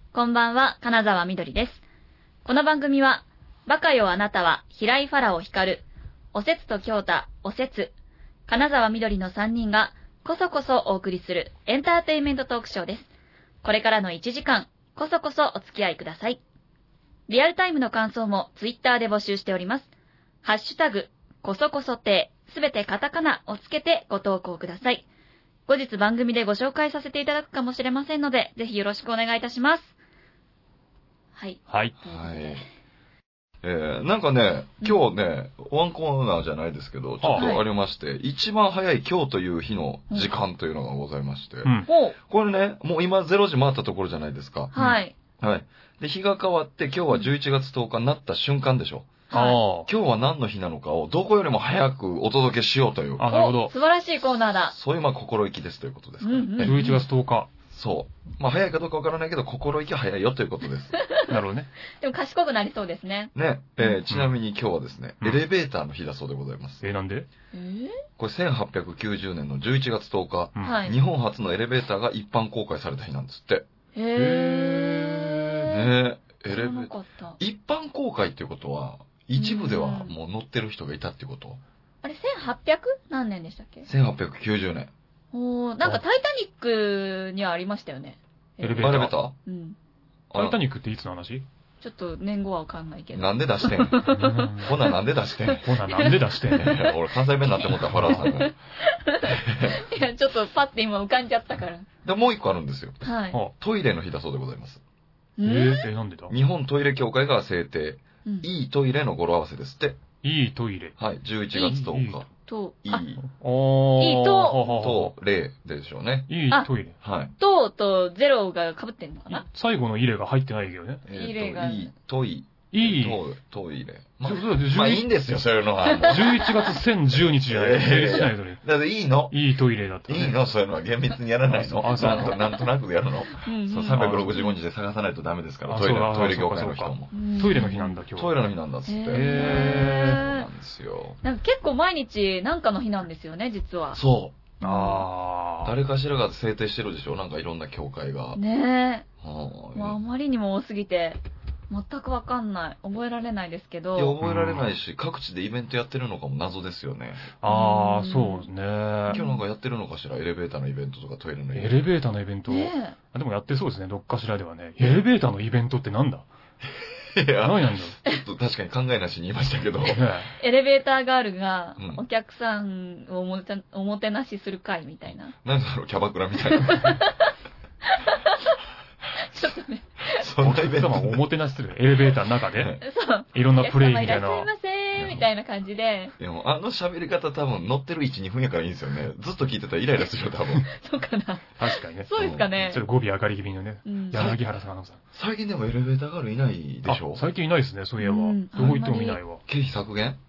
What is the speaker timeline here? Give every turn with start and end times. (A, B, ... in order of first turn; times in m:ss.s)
0:00.1-0:01.8 A
0:02.4-0:07.9 A
0:08.5-0:13.1 A
0:13.6-0:16.4 A
0:17.3-0:19.9 A
0:20.4-0:25.0 A
0:25.7-0:29.9 A
0:31.4-0:32.6 A
0:31.7-0:31.9 B
0:32.1-0:32.6 C
0:33.6-0:44.8 C
0:37.2-0:37.4 B
0:37.3-0:37.6 A
0:41.6-0:41.9 B
0:41.9-0:42.2 A
0:44.7-0:45.1 A
0:44.8-0:45.0 B
0:45.4-0:49.3 C
0:49.3-0:49.6 A
0:49.3-0:49.9 B
0:49.9-0:53.3 C
0:53.2-0:53.7 B
0:53.3-0:54.7 A
0:54.7-0:56.8 C
0:56.2-0:57.0 A
0:56.6-0:57.5 B
0:57.7-1:01.0 C
1:01.0-1:01.3 A
1:01.3-1:01.7 B
1:02.0-1:04.0 A
1:03.3-1:06.8 C
1:06.8-1:07.3 B
1:07.5-1:08.0 A
1:08.2-1:13.7 C
1:10.6-1:11.0 A
1:14.0-1:15.9 A
1:14.2-1:15.7 B
1:15.7-1:21.6 C
1:16.4-1:17.4 A
1:19.3-1:20.2 A
1:22.0-1:23.9 A
1:23.9-1:24.9 C
1:25.3-1:29.8 A
1:28.6-1:29.2 B
1:28.8-1:29.4 C
1:30.3-1:30.6 C
1:30.3-1:31.4 B
1:31.8-1:36.9 A
1:33.1-1:38.6 C
1:34.1-1:34.8 B
1:35.6-1:36.8 B
1:37.6-1:41.9 A
1:37.9-1:38.2 B
1:39.2-1:39.8 C
1:42.0-1:43.0 C
1:43.0-1:43.4 A
1:43.5-1:44.8 C
1:45.4-1:45.8 A
1:45.4-1:46.3 B
1:46.3-1:50.0 C
1:50.2-1:51.0 B
1:51.0-1:52.3 C
1:51.5-1:52.2 B
1:52.5-1:53.1 A
1:52.8-1:53.2 C
1:53.2-1:55.1 B
1:54.0-1:54.6 A
1:54.6-1:56.3 C
1:56.3-1:57.0 B
1:57.0-1:57.3 C
1:57.4-1:59.4 A
1:59.3-2:01.0 B
2:01.1-2:06.5 C
2:01.1-2:01.9 A
2:02.7-2:03.2 B
2:04.2-2:05.1 B
2:05.9-2:06.2 A
2:06.1-2:08.6 B
2:07.1-2:09.4 C
2:09.3-2:10.4 B
2:10.1-2:17.1 C
2:11.5-2:12.4 B
2:12.1-2:12.5 A
2:13.4-2:14.5 A
2:14.0-2:14.3 B
2:15.6-2:18.4 B
2:17.1-2:18.0 A
2:18.2-2:21.2 C
2:18.9-2:20.5 A
2:19.1-2:20.2 B
2:21.2-2:24.0 A
2:23.9-2:24.4 C
2:24.6-2:25.1 A
2:24.6-2:25.7 B
2:25.6-2:28.4 C
2:28.3-2:29.1 A
2:29.2-2:30.0 C
2:29.8-2:34.2 A
2:33.9-2:37.3 C
2:34.2-2:34.7 B
2:37.4-2:39.2 B
2:37.5-2:38.5 A
2:39.1-2:39.4 A
2:39.1-2:41.8 C
2:41.5-2:46.3 B
2:42.5-2:43.0 A
2:47.1-2:50.1 C
2:47.4-2:48.0 B
2:49.9-2:50.3 B
2:50.4-2:55.3 A
2:51.8-2:52.0 C
2:55.4-2:57.1 C
2:56.5-2:57.3 A
2:57.8-2:58.6 A
2:59.2-3:00.3 A
3:00.1-3:01.2 C
3:00.4-3:02.8 B
3:02.5-3:02.8 C
3:02.8-3:06.2 A
3:03.3-3:04.5 B
3:04.9-3:05.2 C
3:06.2-3:10.7 C
3:10.7-3:12.8 A
3:11.6-3:15.0 B
3:12.1-3:12.7 C
3:13.8-3:14.3 A
3:14.1-3:14.4 C
3:15.1-3:17.2 C
3:16.8-3:19.4 B
3:18.0-3:19.2 A
3:18.6-3:18.8 C
3:19.4-3:20.2 C